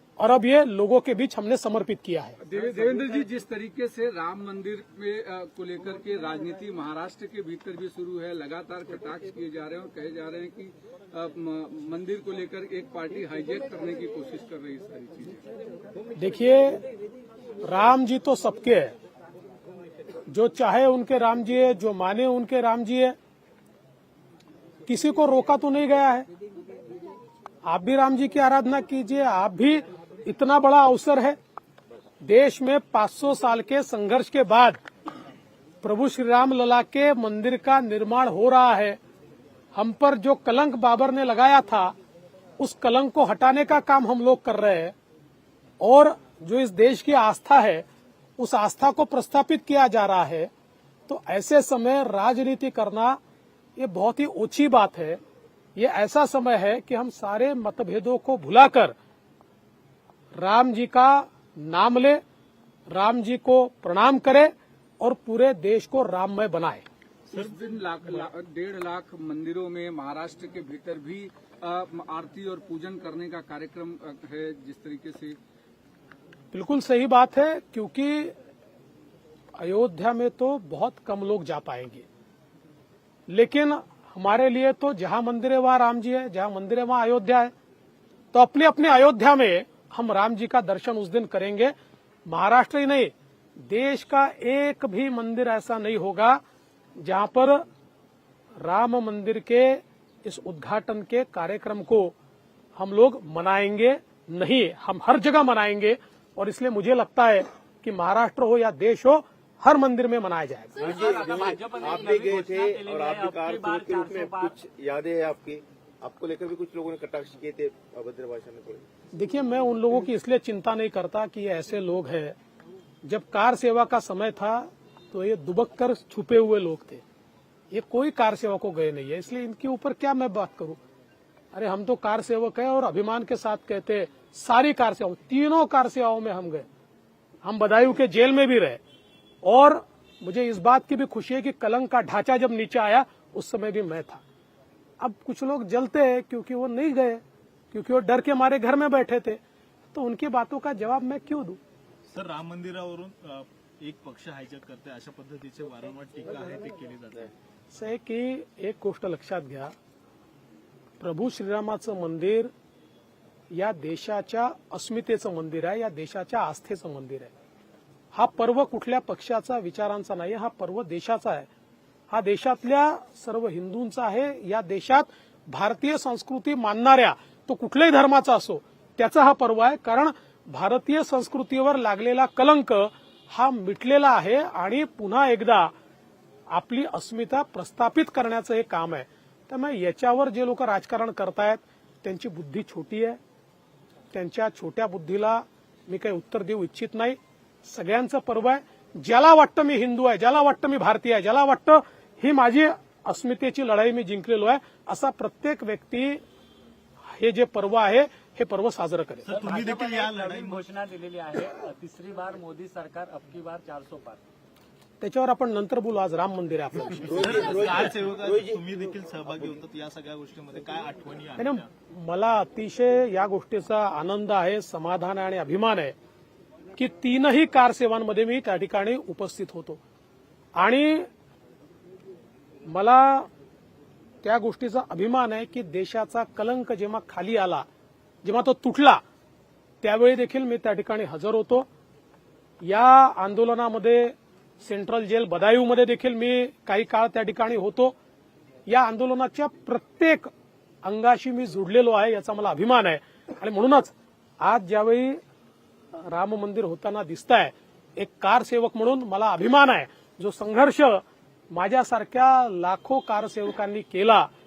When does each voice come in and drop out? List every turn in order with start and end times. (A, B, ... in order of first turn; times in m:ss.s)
0:00.2-0:02.4 A
0:02.4-0:15.4 B
0:16.2-0:16.8 A
0:17.6-0:18.9 A
0:20.3-0:23.1 A
0:24.8-0:26.3 A
0:27.6-0:31.4 A
0:32.2-0:34.8 A
0:35.8-0:39.0 A
0:39.7-0:41.9 A
0:42.6-0:44.9 A
0:45.8-0:47.8 A
0:48.4-0:50.5 A
0:51.1-0:53.2 A
0:53.8-0:55.2 A
0:55.8-0:58.9 A
1:00.4-1:02.2 A
1:02.9-1:06.8 A
1:07.3-1:08.3 C
1:07.3-1:15.4 B
1:16.5-1:18.3 A
1:19.6-1:22.0 A
1:23.3-1:27.5 A
1:28.3-1:31.7 A
1:32.2-1:33.1 A
1:33.6-1:36.4 A
1:37.0-1:37.6 A
1:38.6-1:42.1 A
1:42.8-1:50.8 A
1:50.8-1:54.5 D
1:50.8-1:58.8 E
1:59.1-2:02.4 A
2:03.0-2:07.0 A
2:07.7-2:10.8 A
2:11.5-2:16.6 A
2:17.4-2:18.8 A
2:19.4-2:24.2 A
2:25.0-2:29.4 A
2:29.9-2:31.6 A
2:32.1-2:37.3 C
2:37.7-2:39.7 A
2:41.0-2:42.5 A
2:43.5-2:47.3 A
2:48.1-2:51.5 A
2:52.1-3:05.7 A
3:06.5-3:13.2 A
3:14.1-3:26.2 A
3:27.1-3:29.3 A
3:29.2-3:30.6 C
3:29.2-3:34.2 D
3:35.0-3:37.3 A
3:37.0-3:38.6 E
3:37.1-3:41.7 C
3:39.3-3:39.5 E
3:41.4-3:45.9 A
3:46.8-3:49.8 A
3:50.5-3:51.1 A
3:52.6-3:53.3 A
3:54.2-3:57.6 A
3:58.2-3:59.0 A
3:59.8-4:01.7 A
4:02.6-4:08.0 A
4:08.7-4:10.3 A
4:10.8-4:15.2 A
4:16.0-4:24.3 A